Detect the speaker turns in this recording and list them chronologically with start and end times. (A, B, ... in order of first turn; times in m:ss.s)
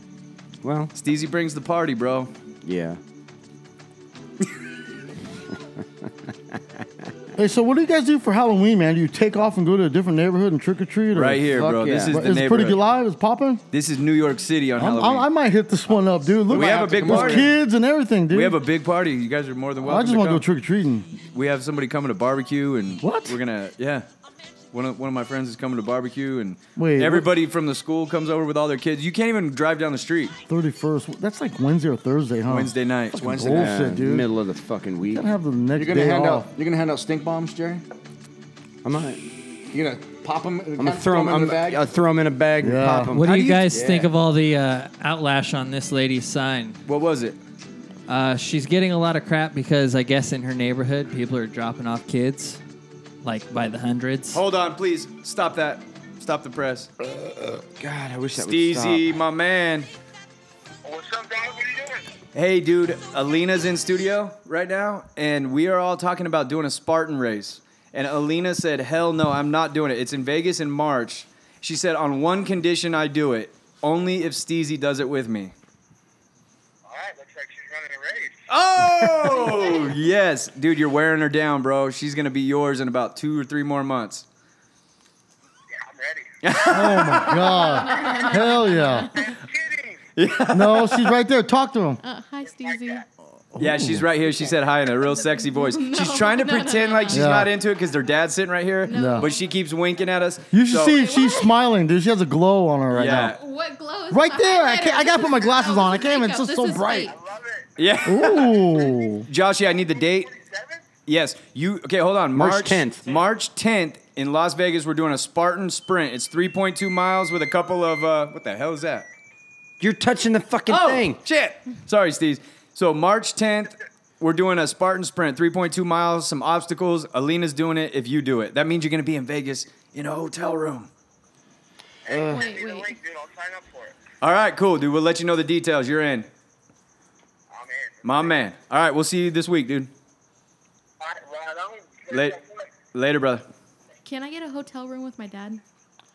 0:00.6-0:00.9 A
0:00.9-0:02.3 B
0:02.6-0:03.0 A
0:07.4-0:13.6 C
0:11.1-0:12.8 B
0:11.6-0:12.2 A
0:13.7-0:15.3 B
0:14.8-0:18.6 C
0:16.5-0:17.5 D
0:16.5-0:17.5 B
0:18.3-0:20.5 B
0:19.8-0:21.1 C
0:21.2-0:24.1 B
0:23.0-0:23.4 C
0:24.7-0:30.3 B
0:26.8-0:27.3 C
0:30.5-0:34.3 C
0:32.5-0:33.2 B
0:33.1-0:33.8 D
0:33.5-0:35.2 A
0:35.1-0:36.5 C
0:35.8-0:37.8 D
0:38.8-0:39.2 A
0:39.7-0:41.8 D
0:40.8-0:44.0 A
0:42.6-0:43.2 C
0:43.1-0:46.8 E
0:43.2-0:43.7 B
0:43.7-0:44.1 D
0:46.9-0:47.4 B
0:48.1-0:52.6 E
0:53.2-0:54.4 E
0:54.3-0:56.9 B
0:57.5-0:59.1 A
0:58.4-0:59.9 B
1:00.8-1:02.0 F
1:02.4-1:15.5 B
1:16.9-1:18.4 F
1:18.5-1:24.2 B
1:19.2-1:19.7 F
1:25.8-1:26.6 F
1:26.4-1:27.4 B
1:26.7-1:29.1 C
1:27.3-1:29.2 G
1:29.1-1:30.0 F
1:30.2-1:31.1 B
1:30.5-1:32.0 C
1:32.0-1:33.0 G
1:33.6-1:34.1 C
1:33.6-1:41.0 B
1:35.1-1:37.4 G
1:37.1-1:37.5 C
1:38.9-1:39.5 G
1:38.9-1:39.3 C
1:40.5-1:43.4 C
1:40.9-1:41.5 G
1:42.9-1:43.4 B
1:43.1-1:47.1 G
1:44.1-1:47.1 C
1:47.1-1:47.7 F
1:47.8-1:50.3 B
1:48.0-1:49.3 C
1:49.7-1:50.8 F
1:51.1-1:59.1 B
1:52.3-1:53.1 A
1:59.8-2:01.2 A
2:00.7-2:10.9 B
2:12.1-2:14.0 F
2:12.3-2:12.9 G
2:14.2-2:16.3 B
2:17.5-2:18.4 F
2:18.0-2:19.9 B
2:21.0-2:22.7 F
2:22.1-2:22.4 B
2:22.9-2:23.4 B
2:24.0-2:25.6 G